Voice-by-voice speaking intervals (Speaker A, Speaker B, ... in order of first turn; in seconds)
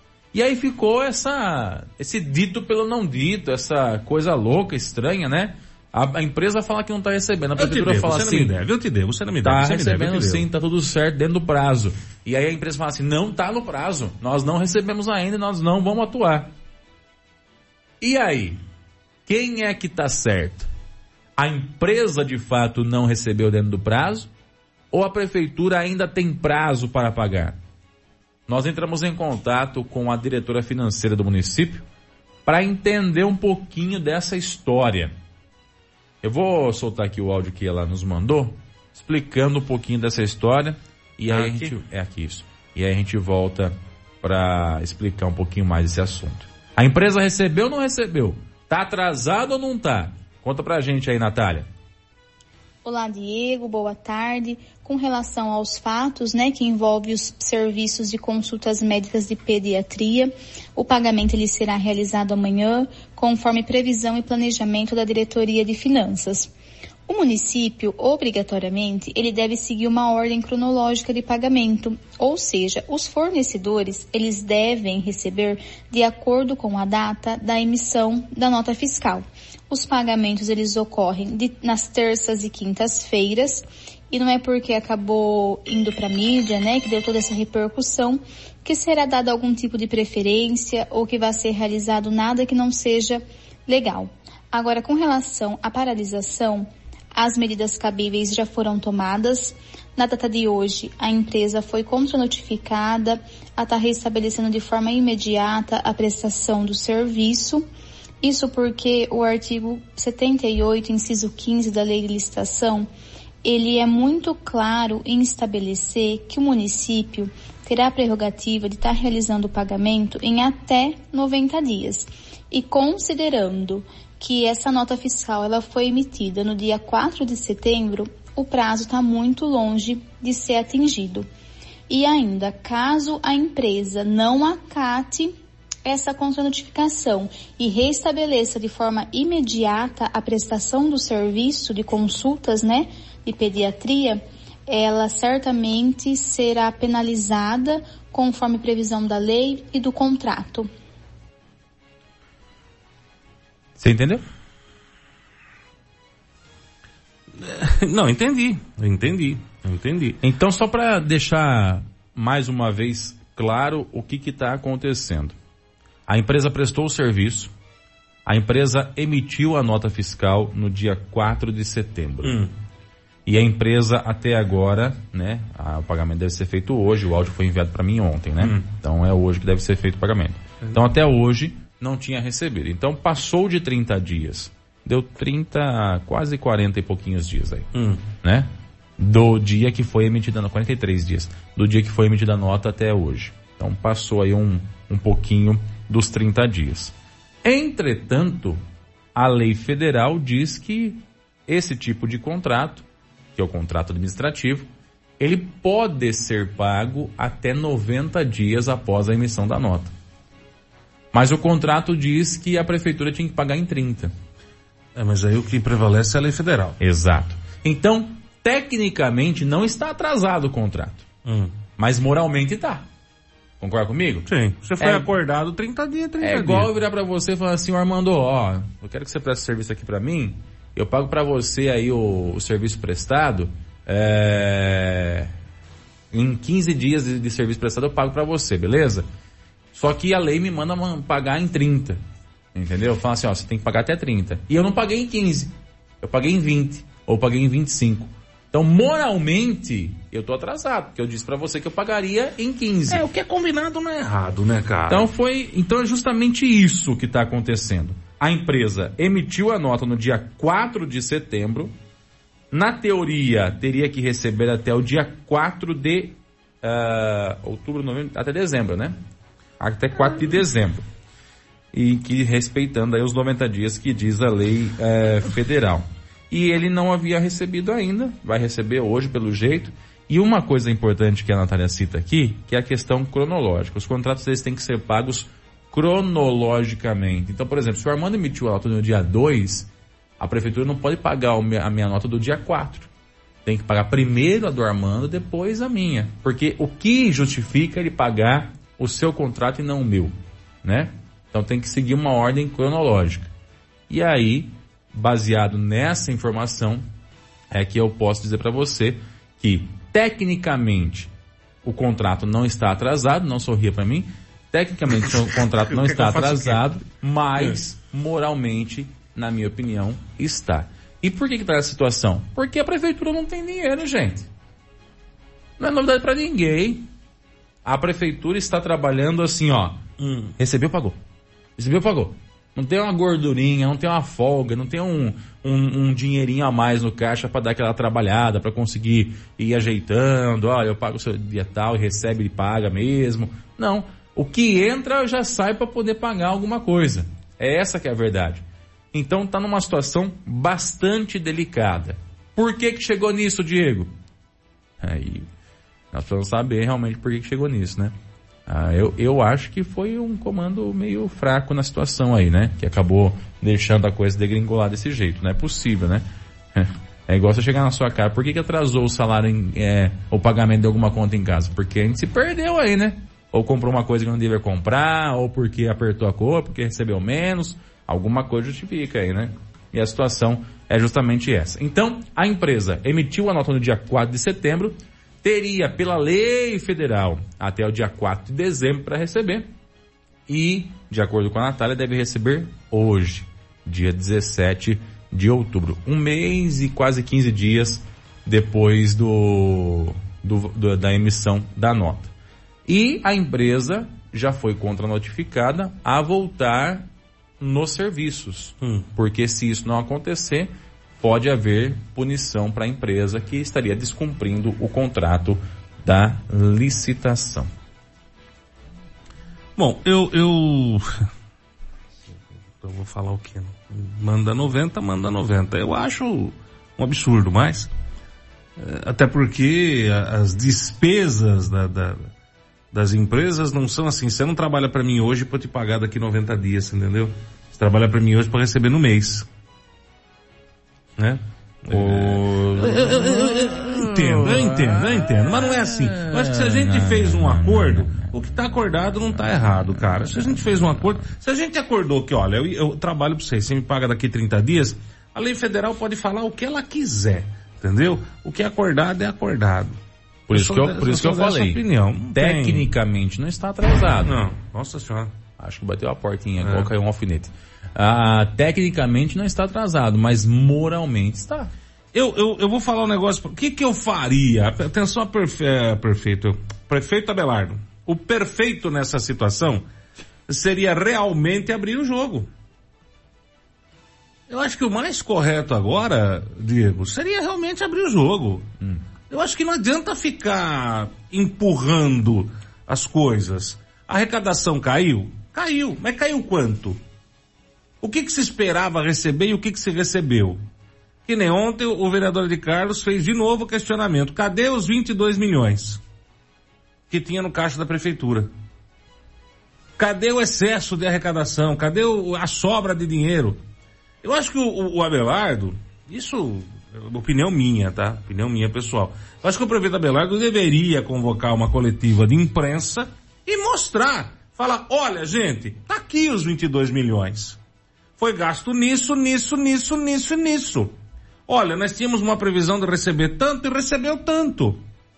Speaker A: 0.3-8.5, 9.4-16.5, 18.0-18.6, 19.2-20.7, 21.4-24.3, 24.9-27.6, 28.5-31.8, 32.5-35.1, 36.2-51.7, 153.8-154.2, 160.2-165.3, 166.1-167.5, 168.2-172.4, 173.2-196.9, 197.4-198.6, 199.2-204.7, 205.2-209.9, 211.1-214.1, 216.8-221.0, 221.8-222.8, 223.6-224.3, 224.8-225.1, 226.2-235.3, 236.1-239.1, 239.7-242.0, 242.5-253.0, 254.9-261.7, 262.5-268.9, 269.6-270.8, 271.7-289.7, 290.2-292.9, 293.4-303.3, 303.9-306.8, 307.5-311.1, 311.6-324.3, 325.6-326.9, 327.6-329.8, 330.4-331.0, 331.6-353.9, 354.8-355.3, 355.9-357.9, 358.5-389.5, 390.3-402.1, 402.7-406.9, 407.4-417.5, 441.7-448.1, 449.2-450.9, 460.3-461.6, 462.1-464.2, 465.4-471.5
Speaker B: 7.6-10.4, 41.3-41.7, 157.4-160.2, 172.2-172.5, 187.7-188.0, 214.9-216.8, 221.2-221.5, 224.3-226.7, 252.9-255.1, 315.0-316.6, 330.0-330.3, 419.6-421.1, 422.6-427.7, 428.6-432.1, 432.7-439.3, 441.0-459.8, 460.3-462.7, 464.0-465.1, 466.4-466.7, 471.9-479.6, 480.3-482.3, 484.3-488.5, 489.1-496.8, 497.8-500.4, 501.1-505.8, 506.9-508.3, 509.8-513.4, 514.0-527.4, 528.0-530.7, 531.3-534.6
Speaker C: 52.8-66.5, 67.1-107.7, 108.2-112.9, 113.4-131.3, 131.9-135.3, 135.8-150.7